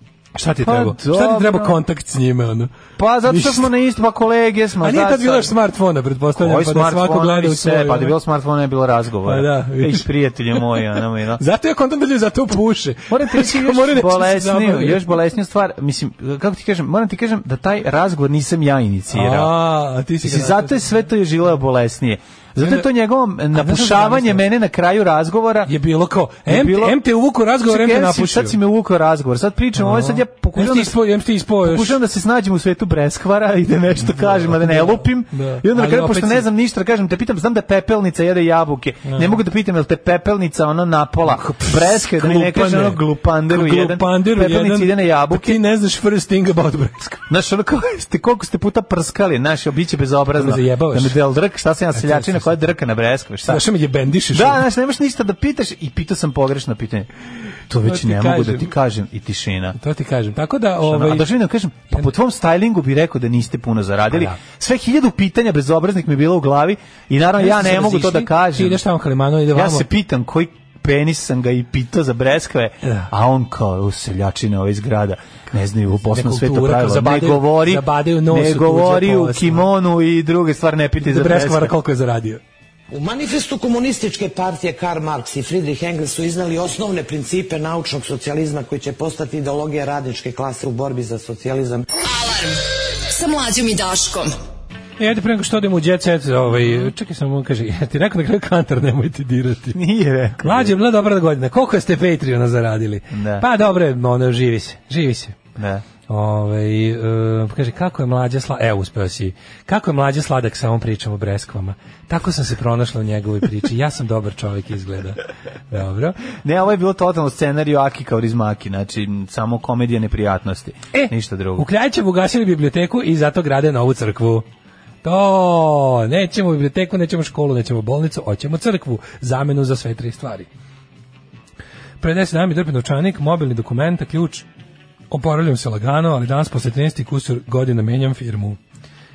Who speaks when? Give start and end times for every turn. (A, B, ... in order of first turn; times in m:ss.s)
0:00.4-0:02.7 A
0:00.6-0:01.8 B
0:03.0-0:05.5 B
0:03.3-0:03.7 A
0:04.8-0:08.2 A
0:06.4-0:11.4 B
0:09.2-0:15.1 A
0:13.1-0:19.5 B
0:19.1-0:20.8 A
0:20.2-0:25.7 B
0:22.6-0:22.9 A
0:23.5-0:24.4 A
0:25.7-0:28.6 A
0:26.5-0:27.0 B
0:27.6-0:31.0 B
0:29.8-0:32.0 A
0:31.6-0:45.6 B
0:34.0-0:36.5 A
0:39.1-0:39.4 A
0:41.3-0:47.2 A
0:47.3-0:53.7 B
0:50.3-0:51.2 A
0:51.9-0:52.7 A
0:53.5-0:54.6 A
0:54.3-0:57.1 B
0:57.7-0:59.8 B
0:57.8-0:58.7 A
0:59.8-1:01.3 A
1:00.8-1:08.8 B
1:04.1-1:04.4 A
1:07.4-1:09.9 A
1:09.5-1:21.8 B
1:12.8-1:13.1 A
1:16.0-1:19.7 A
1:21.0-1:22.4 A
1:22.9-1:31.9 C
1:32.0-1:34.4 D
1:35.0-1:39.8 A
1:39.7-1:40.8 B
1:40.4-1:45.4 A
1:43.1-1:43.5 B
1:45.6-1:45.9 B
1:46.1-1:56.2 A
1:56.4-2:01.7 B
2:00.9-2:04.5 A
2:05.0-2:10.5 A
2:12.0-2:14.5 A
2:15.1-2:18.6 A